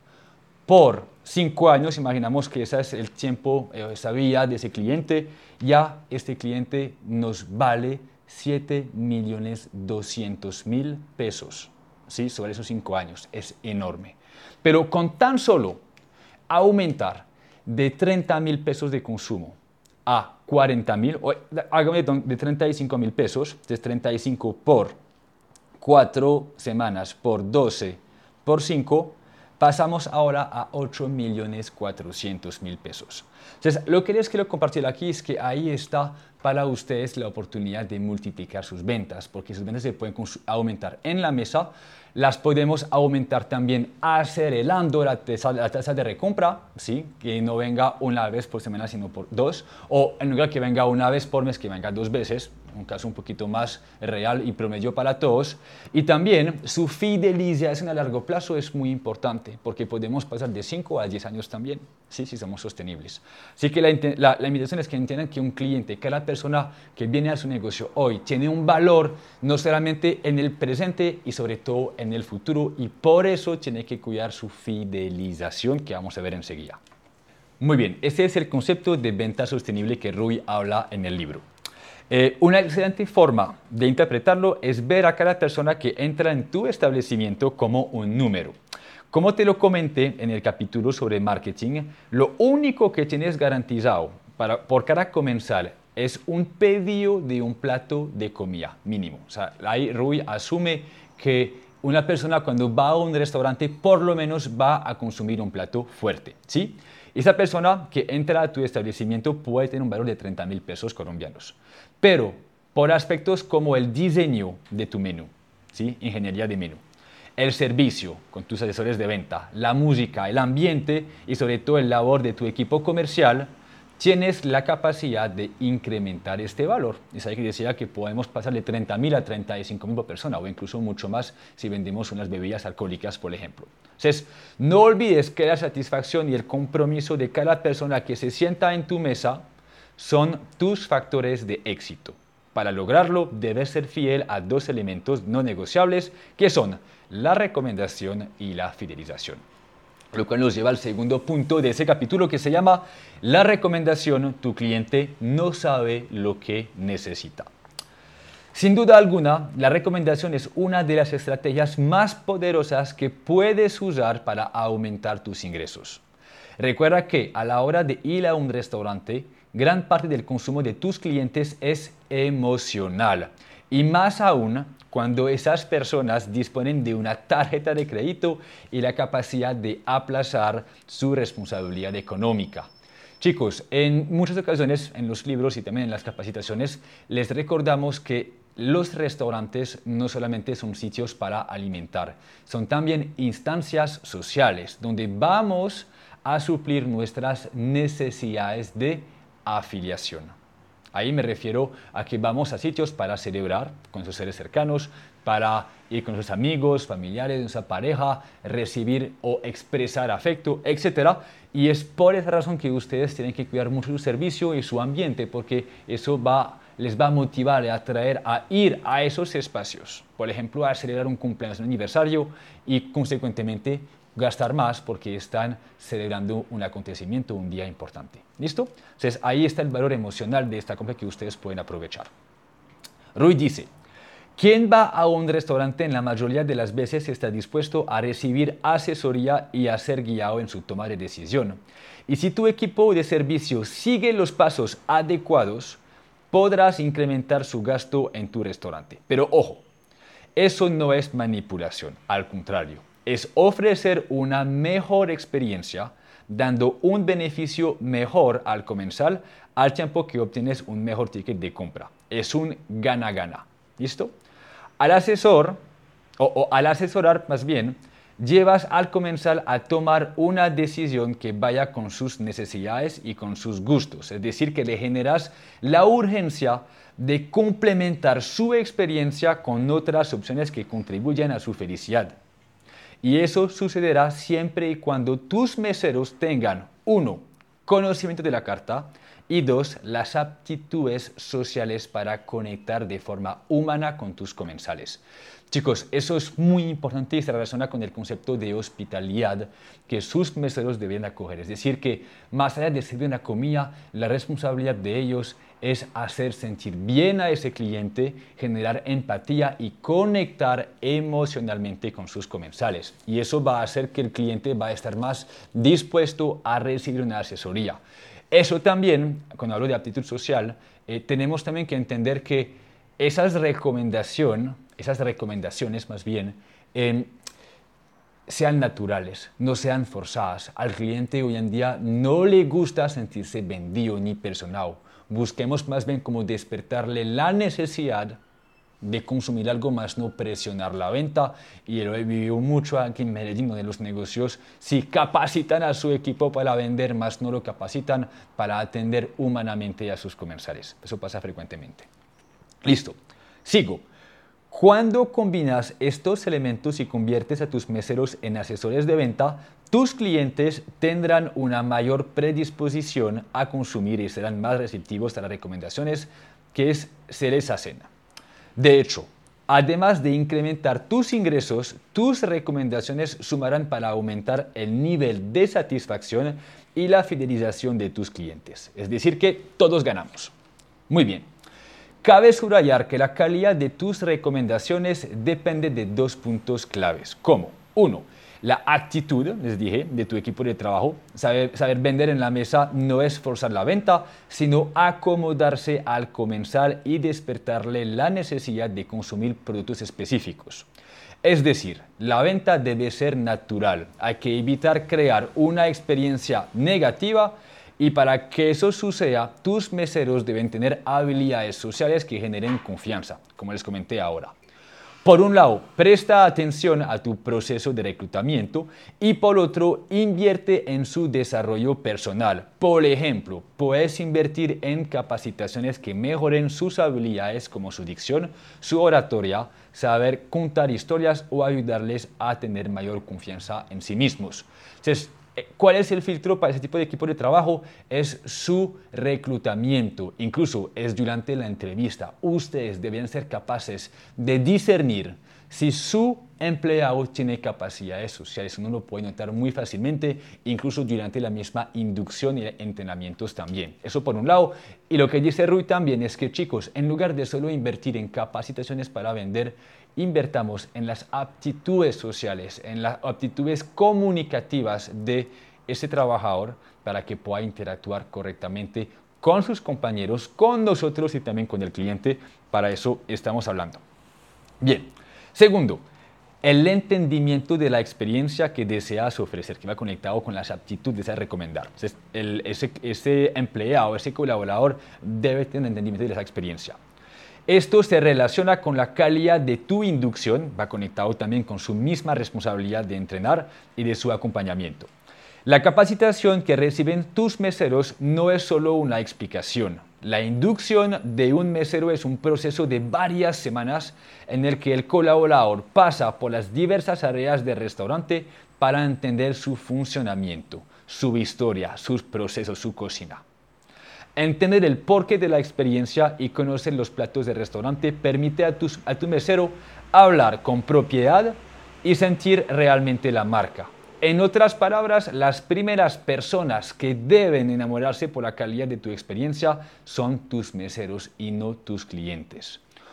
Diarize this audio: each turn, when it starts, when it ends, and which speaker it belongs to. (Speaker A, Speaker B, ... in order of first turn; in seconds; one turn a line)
Speaker A: 0.7-15.8
Speaker A: 16.5-25.0
Speaker A: 25.8-76.8
Speaker A: 77.6-81.5
Speaker A: 82.1-88.6
Speaker A: 89.1-116.8
Speaker A: 117.4-139.5
Speaker A: 140.0-149.4
Speaker A: 150.1-157.5
Speaker A: 158.5-166.0
Speaker A: 166.6-182.7
Speaker A: 183.2-200.4
Speaker A: 200.9-232.1
Speaker A: 233.2-233.7
Speaker A: 234.4-245.8
Speaker A: 246.3-249.7
Speaker A: 250.3-264.1
Speaker A: 264.8-265.6
Speaker A: 266.2-282.2
Speaker A: 283.0-327.2
Speaker A: 328.3-338.2
Speaker A: 338.8-351.9
Speaker A: 352.6-353.9
Speaker A: 354.5-367.9
Speaker A: 368.6-380.3
Speaker A: 380.9-381.3
Speaker A: 382.0-400.7
Speaker A: 401.2-414.3
Speaker A: 415.0-473.8
Speaker A: 474.6-475.8
Speaker A: 476.4-486.8
Speaker A: 487.5-494.9
Speaker A: 495.4-513.2
Speaker A: 514.2-532.6